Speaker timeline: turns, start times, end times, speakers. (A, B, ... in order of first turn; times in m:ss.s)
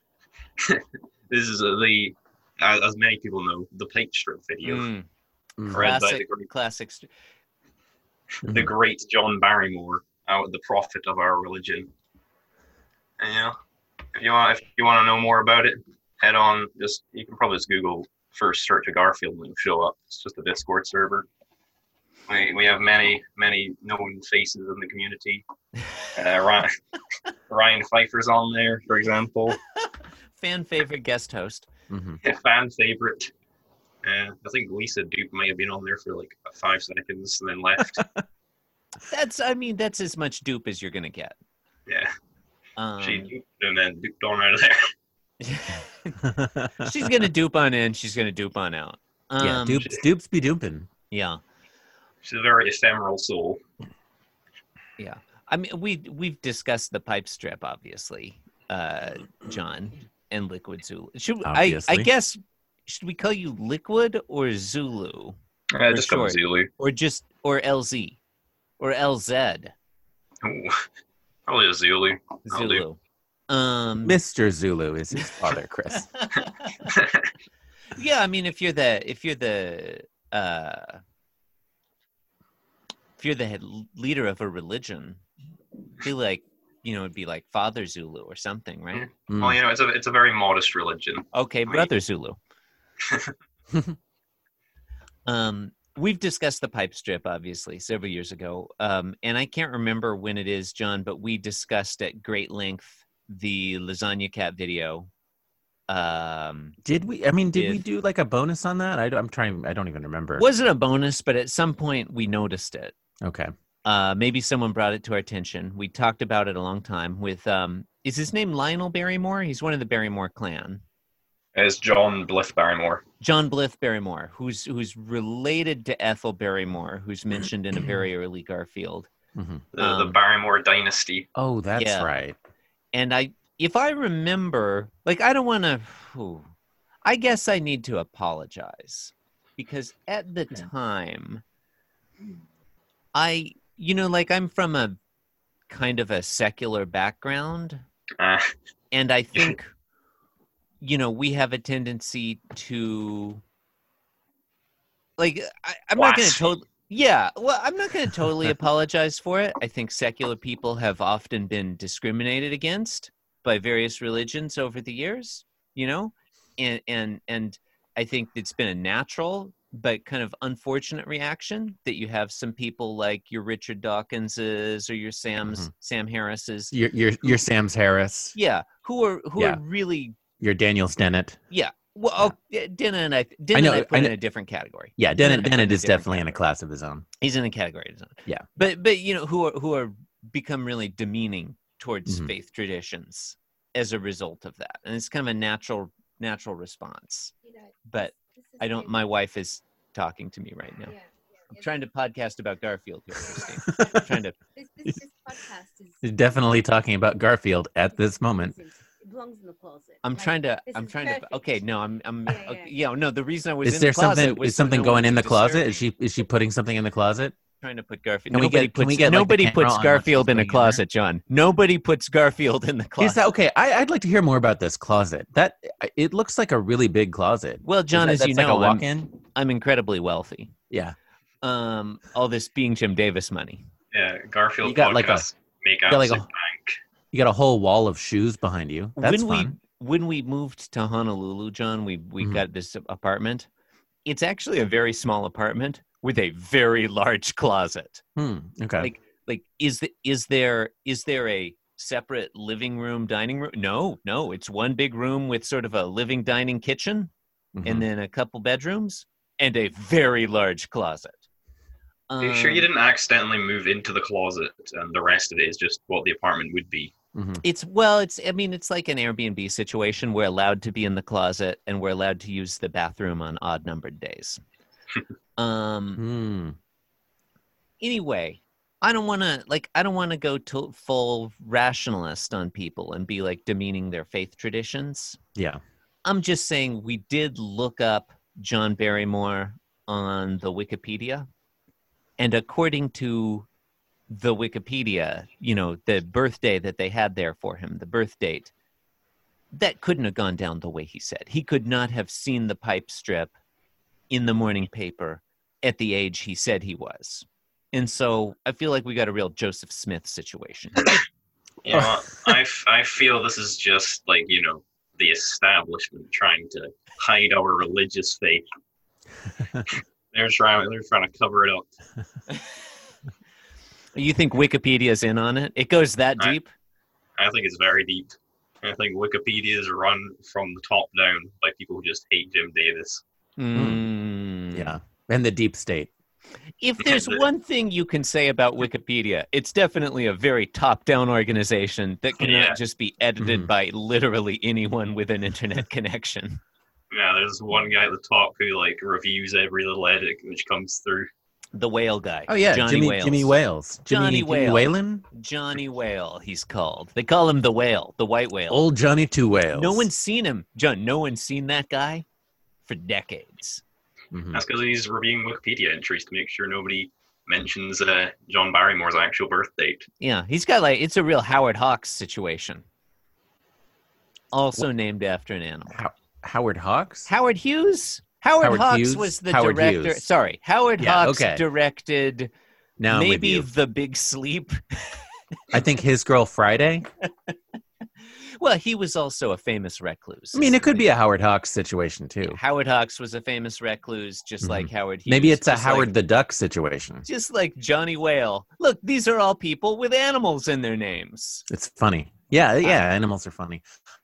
0:00.6-0:04.9 A
0:04.6-0:05.1 B
0:05.6-0:05.9 C
0:05.7-0:06.5 A
0:05.7-0:07.1 B
0:08.4-0:11.9 A
0:08.4-0:08.7 C
0:13.2-0:13.6 A
0:14.1-0:21.3 A
0:22.3-0:25.4 A
0:26.1-0:26.7 A
0:27.5-0:29.6 A
0:30.4-0:31.7 B
0:31.9-0:32.2 C
0:32.2-0:33.3 A
0:34.0-0:38.1 A
0:38.0-0:38.2 C
0:39.1-0:41.4 B
0:41.9-0:42.1 A
0:42.8-0:43.3 B
0:43.0-0:44.9 A
0:45.4-0:46.2 B
0:46.2-0:47.1 C
0:46.8-0:49.9 B
0:49.4-0:50.9 C
0:51.1-0:51.4 B
0:52.2-0:53.6 A
0:55.0-1:05.4 B
1:01.4-1:02.1 C
1:05.7-1:06.7 A
1:05.9-1:08.2 B
1:08.8-1:09.7 B
1:10.4-1:10.8 A
1:11.5-1:12.8 A
1:12.5-1:13.0 B
1:13.5-1:14.2 B
1:14.0-1:16.1 C
1:16.2-1:16.9 B
1:16.9-1:17.3 A
1:17.9-1:21.0 B
1:23.2-1:25.2 B
1:26.0-1:29.1 B
1:28.9-1:31.9 A
1:29.3-1:29.6 C
1:31.3-1:32.4 B
1:33.0-1:33.3 A
1:35.3-1:45.1 B
1:45.9-1:46.8 B
1:46.8-1:50.4 C
1:47.6-1:47.8 B
1:50.4-1:52.9 B
1:53.2-1:53.5 C
1:53.8-2:00.8 B
2:01.6-2:03.0 A
2:03.2-2:09.1 B
2:09.4-2:09.6 C
2:09.7-2:11.3 A
2:09.8-2:10.2 B
2:11.4-2:12.4 C
2:11.8-2:12.1 B
2:12.9-2:16.5 B
2:17.0-2:21.4 B
2:23.1-2:25.0 B
2:25.7-2:27.8 B
2:28.2-2:28.5 A
2:28.9-2:29.7 B
2:30.8-2:33.4 B
2:35.2-2:57.4 B
2:36.0-2:36.4 A
2:56.7-2:58.4 C
2:58.4-3:00.2 B
3:00.4-3:01.4 C
3:01.5-3:06.4 B
3:03.5-3:04.2 C
3:05.0-3:07.1 C
3:07.2-3:17.3 B
3:12.1-3:12.3 C
3:17.5-3:19.1 D
3:17.9-3:20.9 B
3:20.9-3:21.7 D
3:21.5-3:24.4 B
3:23.2-3:26.0 D
3:26.0-3:28.6 C
3:28.0-3:31.6 D
3:30.0-3:35.8 B
3:32.3-3:32.7 D
3:33.6-3:37.4 C
3:37.6-3:43.2 B
3:38.3-3:40.8 C
3:43.0-3:49.1 C
3:47.6-3:50.5 B
3:50.7-3:51.0 C
3:51.4-3:53.6 B
3:53.9-3:56.8 A
3:54.6-3:55.3 C
3:55.9-3:56.3 C
3:57.1-3:59.5 C
3:59.0-4:03.5 B
4:04.1-4:08.0 B
4:08.2-4:08.9 C
4:08.8-4:17.1 B
4:17.6-4:17.8 C
4:17.6-4:21.2 B
4:22.1-4:22.7 B
4:22.2-4:26.9 A
4:27.2-4:27.4 C
4:27.4-4:34.4 B
4:35.4-4:36.0 B
4:36.0-4:36.6 C
4:37.8-4:45.2 B
4:45.4-4:45.6 C
4:46.0-4:51.3 B
4:52.2-4:53.5 B
4:54.1-4:58.5 B
4:59.5-5:03.3 B
5:04.1-5:11.0 B
5:11.6-5:18.4 A
5:11.7-5:12.0 C
5:19.7-5:21.7 A
5:23.9-5:26.5 B
5:27.2-5:33.0 A
5:33.4-5:34.8 B
5:33.6-5:33.9 C
5:34.5-5:35.9 C
5:36.6-5:46.4 B
5:36.8-5:37.2 A
5:42.2-5:42.6 A
5:43.2-5:43.5 C
5:46.9-5:51.1 A
5:51.6-5:58.6 B
5:52.3-5:55.1 C
5:58.5-5:59.9 C
5:59.5-6:02.0 B
6:02.6-6:03.6 B
6:04.1-6:04.4 C
6:04.3-6:09.9 A
6:10.0-6:12.6 B
6:14.3-6:15.8 B
6:15.7-6:17.1 C
6:17.1-6:22.3 B
6:18.4-6:20.1 C
6:20.8-6:21.4 C
6:22.8-6:23.5 C
6:22.9-6:25.0 B
6:25.5-6:26.9 C
6:28.4-6:30.9 B
6:30.3-6:32.4 C
6:32.3-6:35.9 B
6:34.4-6:37.0 C
6:37.0-6:41.4 B
6:41.5-6:43.6 C